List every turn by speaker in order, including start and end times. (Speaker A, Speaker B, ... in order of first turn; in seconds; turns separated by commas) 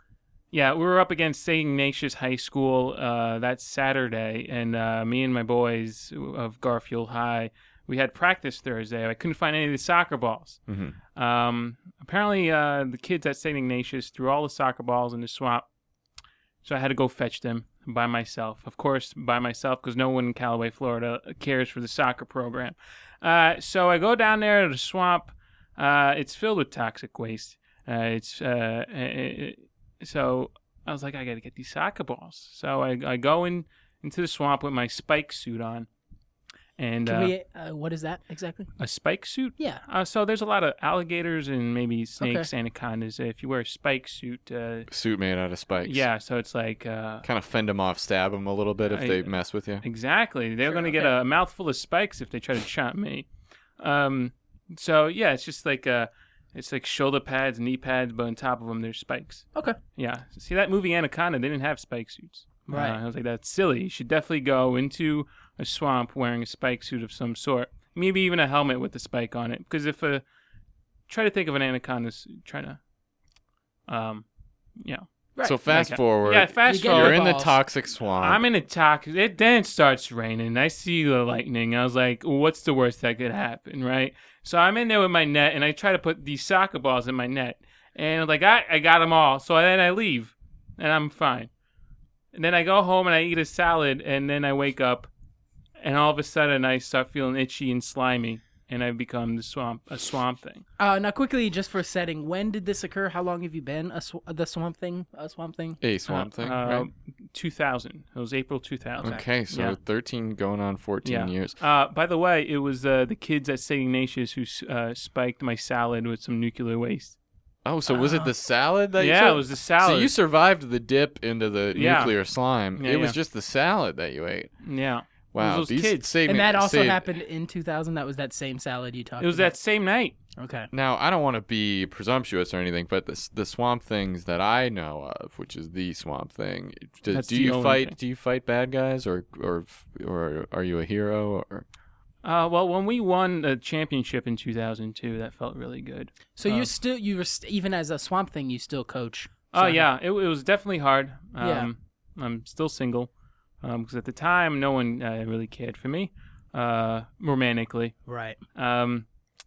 Speaker A: 0.5-10.6, Speaker B: 10.7-10.9, Speaker A: 11.2-15.7, Speaker A: 16.6-35.9, Speaker A: 36.8-37.3, Speaker C: 37.0-38.7, Speaker A: 38.8-44.9, Speaker C: 39.6-39.8, Speaker C: 42.2-42.5, Speaker B: 44.9-46.1, Speaker A: 45.8-47.3, Speaker B: 47.2-49.8, Speaker A: 48.9-70.2, Speaker C: 50.6-51.2, Speaker C: 62.7-63.0, Speaker A: 71.1-72.8, Speaker A: 73.9-75.1, Speaker B: 75.4-78.4, Speaker A: 75.7-77.3, Speaker C: 76.6-77.6, Speaker A: 78.2-91.5, Speaker A: 92.3-95.1, Speaker A: 95.8-100.6, Speaker C: 100.8-105.8, Speaker B: 105.8-106.9, Speaker A: 106.1-109.8, Speaker C: 109.0-109.3, Speaker B: 109.0-111.6, Speaker A: 111.0-117.2, Speaker B: 117.7-124.5, Speaker C: 117.9-118.3, Speaker A: 119.0-120.1, Speaker A: 121.7-122.2, Speaker A: 122.8-123.2, Speaker A: 124.6-126.2, Speaker B: 125.3-127.1, Speaker C: 126.3-129.6, Speaker A: 129.2-130.2, Speaker C: 130.4-130.7, Speaker B: 130.7-141.7, Speaker A: 137.1-137.9, Speaker A: 142.2-146.7, Speaker C: 146.4-149.9, Speaker A: 149.5-158.0, Speaker C: 151.4-151.7, Speaker C: 158.1-158.4, Speaker A: 158.6-159.1